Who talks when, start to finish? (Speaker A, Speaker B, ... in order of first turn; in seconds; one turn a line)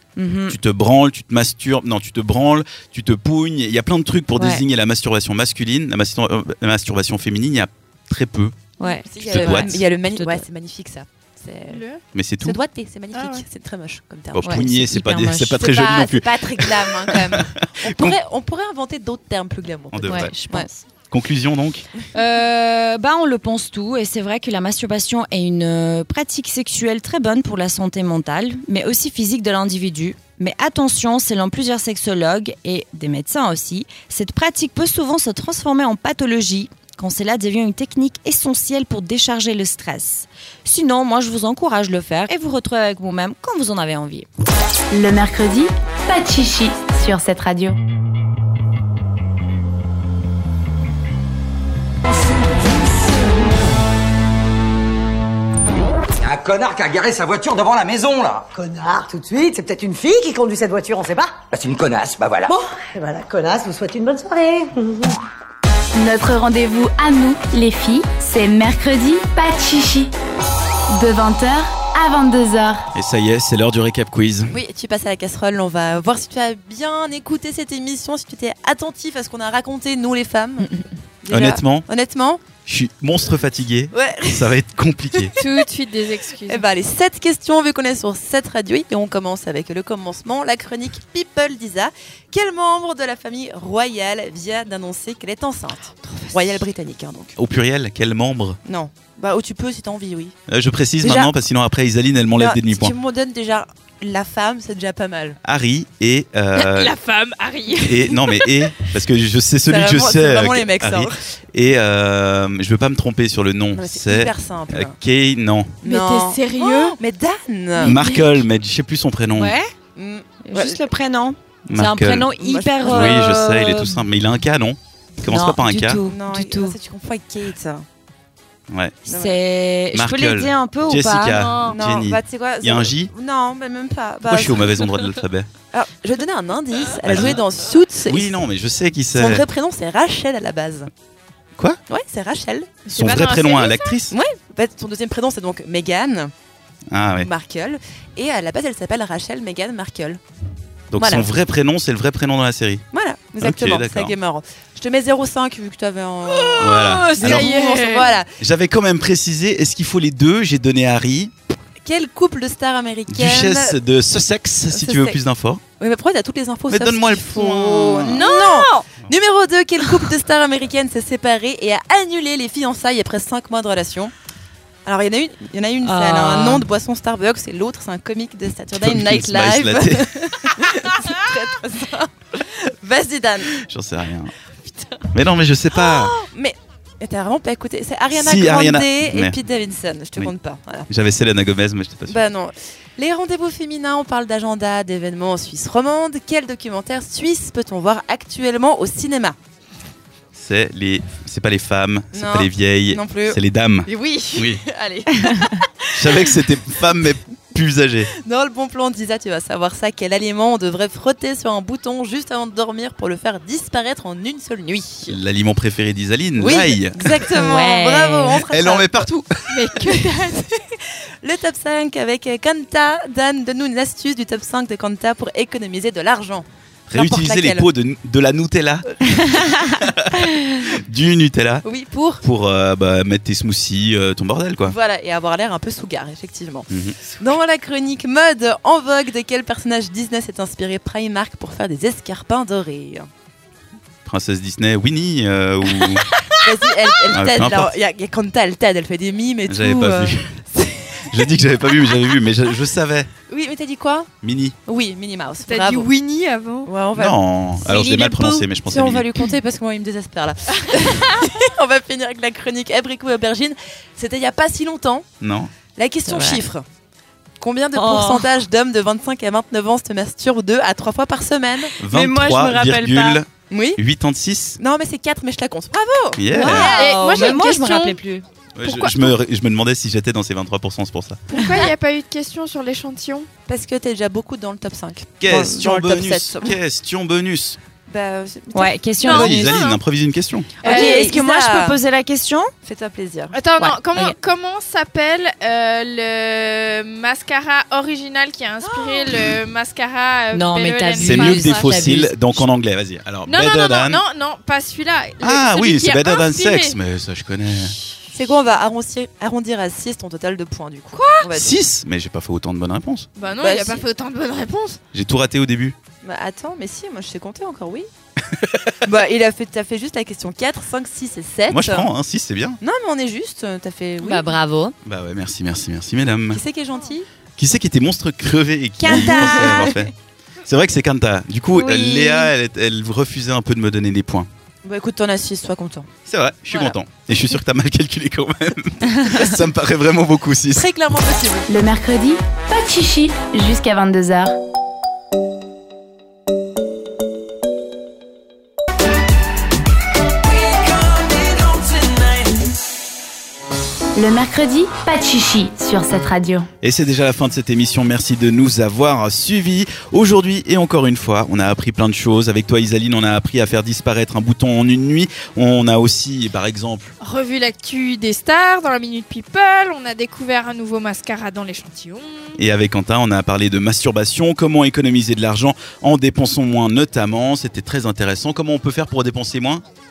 Speaker A: 0.2-0.6
Speaker B: 0.5-8.6
Speaker A: 4.4-4.6
Speaker A: 8.8-10.4
Speaker C: 8.8-11.8
Speaker B: 9.2-9.8
Speaker D: 11.7-12.0
Speaker B: 12.1-12.6
Speaker C: 12.4-14.7
Speaker D: 13.1-13.4
Speaker B: 14.3-18.2
Speaker A: 14.4-15.9
Speaker C: 15.6-20.7
Speaker B: 19.9-20.3
Speaker A: 20.0-20.8
Speaker B: 21.1-21.8
Speaker A: 22.1-44.3
Speaker E: 44.9-47.8
Speaker F: 56.2-58.5
Speaker G: 58.5-61.4
Speaker F: 61.5-62.5
Speaker G: 62.5-65.2
Speaker E: 65.9-70.1
Speaker E: 70.9-72.9
Speaker B: 72.9-74.5
Speaker C: 74.5-82.5
Speaker B: 81.3-81.8
Speaker B: 82.6-85.4
Speaker C: 83.9-84.6
Speaker C: 85.1-85.7
Speaker D: 85.4-86.6
Speaker C: 86.4-97.3
Speaker D: 96.0-96.5
Speaker B: 97.4-98.6
Speaker C: 98.6-100.3
Speaker B: 100.5-102.9
Speaker C: 101.0-101.3
Speaker C: 102.3-105.4
Speaker B: 105.4-107.0
Speaker D: 106.5-108.9
Speaker B: 107.8-115.8
Speaker C: 109.7-111.2
Speaker C: 113.7-115.0
Speaker C: 115.8-118.1
Speaker D: 115.8-117.0
Speaker D: 117.8-118.2
Speaker B: 117.8-119.5
Speaker A: 119.3-119.7
Speaker C: 120.0-120.8
Speaker A: 120.4-124.0
Speaker B: 121.7-122.3
Speaker C: 122.4-123.4
Speaker B: 122.8-126.0
Speaker A: 125.2-126.8
Speaker C: 126.0-127.8
Speaker B: 128.7-129.0
Speaker A: 129.0-131.4
Speaker C: 129.1-129.4
Speaker B: 129.9-133.1
Speaker D: 131.3-131.8
Speaker C: 131.6-134.9
Speaker B: 134.3-135.5
Speaker C: 135.7-138.4
Speaker B: 137.1-137.4
Speaker B: 138.1-139.4
Speaker C: 139.1-140.9
Speaker C: 141.9-142.9
Speaker D: 142.9-143.9
Speaker B: 142.9-144.2
Speaker C: 144.1-146.3
Speaker B: 146.9-147.3
Speaker C: 147.2-150.2
Speaker B: 150.9-152.8
Speaker C: 151.0-151.3
Speaker C: 152.9-158.3
Speaker B: 153.4-154.1
Speaker D: 156.3-158.1
Speaker B: 156.6-157.6
Speaker B: 158.4-161.3
Speaker C: 161.8-163.8
Speaker B: 163.1-165.6
Speaker C: 164.7-165.2
Speaker C: 165.8-174.1
Speaker B: 166.7-168.2
Speaker D: 168.2-168.8
Speaker C: 174.8-183.5
Speaker A: 175.8-176.7
Speaker B: 178.8-180.4
Speaker B: 183.5-184.3
Speaker B: 185.1-186.2
Speaker C: 185.7-190.9
Speaker B: 188.1-189.3
Speaker B: 190.9-192.2
Speaker C: 192.1-199.4
Speaker B: 200.3-204.6
Speaker C: 202.1-206.2
Speaker B: 205.9-208.1
Speaker C: 208.1-215.2
Speaker B: 215.1-217.1
Speaker C: 216.4-219.2
Speaker A: 217.3-218.4
Speaker B: 218.5-219.5
Speaker D: 219.5-220.5
Speaker C: 220.1-227.7
Speaker B: 226.9-231.7
Speaker C: 231.6-232.2
Speaker B: 232.2-234.7
Speaker C: 234.6-243.1
Speaker B: 236.7-237.0
Speaker B: 244.1-246.1
Speaker C: 246.4-251.3
Speaker B: 247.1-247.7
Speaker B: 249.5-250.4
Speaker B: 251.1-253.1
Speaker C: 253.3-254.1
Speaker B: 254.2-254.5
Speaker C: 254.7-255.9
Speaker D: 255.4-256.7
Speaker C: 256.6-258.1
Speaker B: 256.9-259.1
Speaker A: 257.7-258.4
Speaker C: 258.6-265.1
Speaker B: 265.2-265.5
Speaker C: 265.7-266.6
Speaker A: 266.0-266.4
Speaker C: 267.4-271.8
Speaker A: 267.7-268.4
Speaker B: 271.8-274.6
Speaker A: 271.9-273.2
Speaker C: 273.5-273.8
Speaker C: 274.6-277.4
Speaker B: 276.1-276.8
Speaker A: 276.3-278.2
Speaker D: 276.5-278.0
Speaker B: 278.5-281.2
Speaker D: 278.6-279.1
Speaker D: 281.3-283.3
Speaker C: 283.5-286.6
Speaker B: 285.2-287.6
Speaker A: 285.3-285.8
Speaker C: 287.9-289.2
Speaker A: 288.5-289.6
Speaker D: 289.0-289.8
Speaker B: 289.0-290.6
Speaker D: 290.6-291.1
Speaker C: 290.6-291.8
Speaker A: 290.6-292.5
Speaker C: 292.6-293.4
Speaker D: 293.3-301.8
Speaker A: 293.6-294.1
Speaker C: 298.6-299.2
Speaker A: 300.3-302.4
Speaker B: 301.0-304.0
Speaker D: 303.3-306.8
Speaker B: 305.2-307.8
Speaker C: 308.1-311.6
Speaker D: 310.9-311.3
Speaker B: 311.4-313.1
Speaker D: 313.2-314.8
Speaker C: 313.4-313.8
Speaker B: 314.9-315.8
Speaker C: 316.0-317.9
Speaker B: 318.2-318.7
Speaker C: 318.8-321.9
Speaker B: 321.5-322.6
Speaker C: 322.6-324.3
Speaker A: 324.0-324.7
Speaker B: 324.9-326.4
Speaker C: 326.3-327.1
Speaker B: 327.4-329.9
Speaker A: 328.8-329.9
Speaker C: 328.9-329.7
Speaker B: 330.4-334.3
Speaker A: 331.5-332.3
Speaker C: 334.6-335.9
Speaker B: 336.1-340.6
Speaker C: 336.5-336.7
Speaker C: 340.5-341.5
Speaker E: 341.5-344.3
Speaker E: 353.9-356.5
Speaker B: 356.6-366.9
Speaker D: 367.0-372.4
Speaker B: 372.4-379.6